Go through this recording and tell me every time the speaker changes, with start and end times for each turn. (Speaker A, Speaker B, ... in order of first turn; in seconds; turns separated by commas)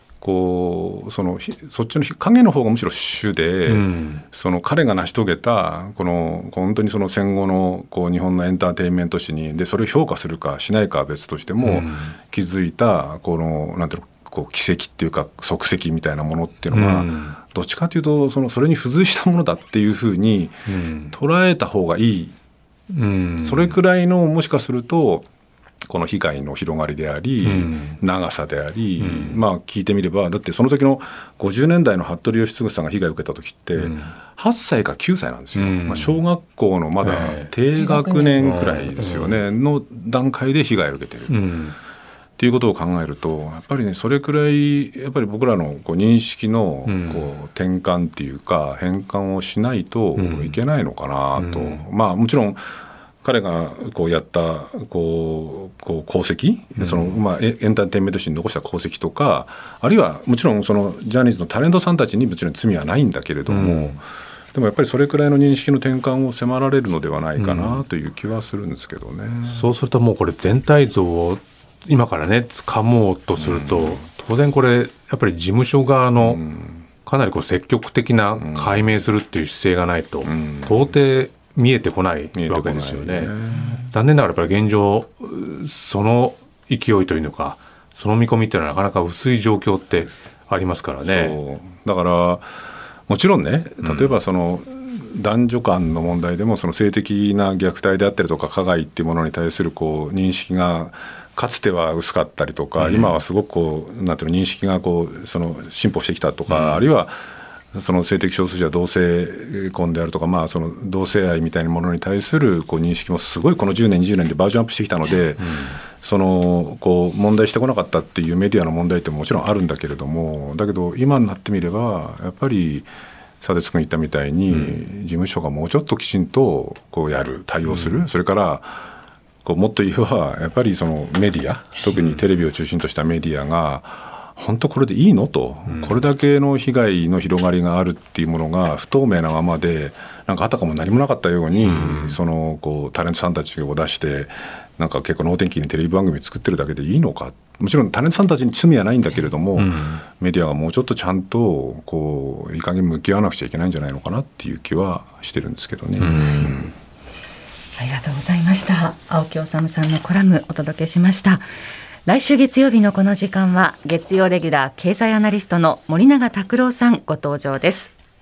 Speaker A: 0.2-22.4, Speaker B: 3.7-4.2, Speaker B: 11.6-12.1, Speaker B: 16.7-17.4, Speaker B: 20.7-21.1, Speaker B: 22.9-23.8, Speaker A: 23.4-25.3, Speaker A: 25.9-41.4, Speaker B: 27.4-28.0, Speaker B: 29.0-29.4, Speaker B: 33.8-34.1, Speaker B: 35.5-36.2, Speaker B: 37.0-37.5, Speaker B: 38.4-39.4, Speaker B: 41.3-41.8, Speaker A: 42.4-52.6, Speaker B: 46.9-47.3, Speaker B: 50.2-50.6, Speaker B: 51.4-51.8, Speaker A: 53.2-69.7, Speaker B: 56.8-57.2, Speaker B: 63.5-64.0, Speaker B: 67.4-67.8, Speaker B: 69.5-76.4, Speaker A: 73.3-74.0, Speaker A: 76.2-76.8, Speaker B: 77.0-91.4, Speaker A: 78.4-78.9, Speaker A: 80.2-80.9, Speaker A: 82.3-83.8, Speaker A: 91.0-92.5, Speaker A: 93.1-107.2, Speaker B: 93.8-94.2, Speaker B: 102.8-103.2, Speaker B: 106.5-106.8, Speaker A: 107.7-122.9, Speaker B: 115.4-115.8, Speaker A: 123.4-128.8, Speaker B: 124.5-124.8, Speaker B: 127.6-128.1, Speaker A: 129.4-156.7, Speaker B: 131.9-132.2, Speaker B: 135.7-136.0, Speaker B: 141.6-142.2, Speaker B: 149.6-150.0, Speaker B: 156.0-156.6, Speaker C: 157.8-161.5, Speaker C: 162.1-167.9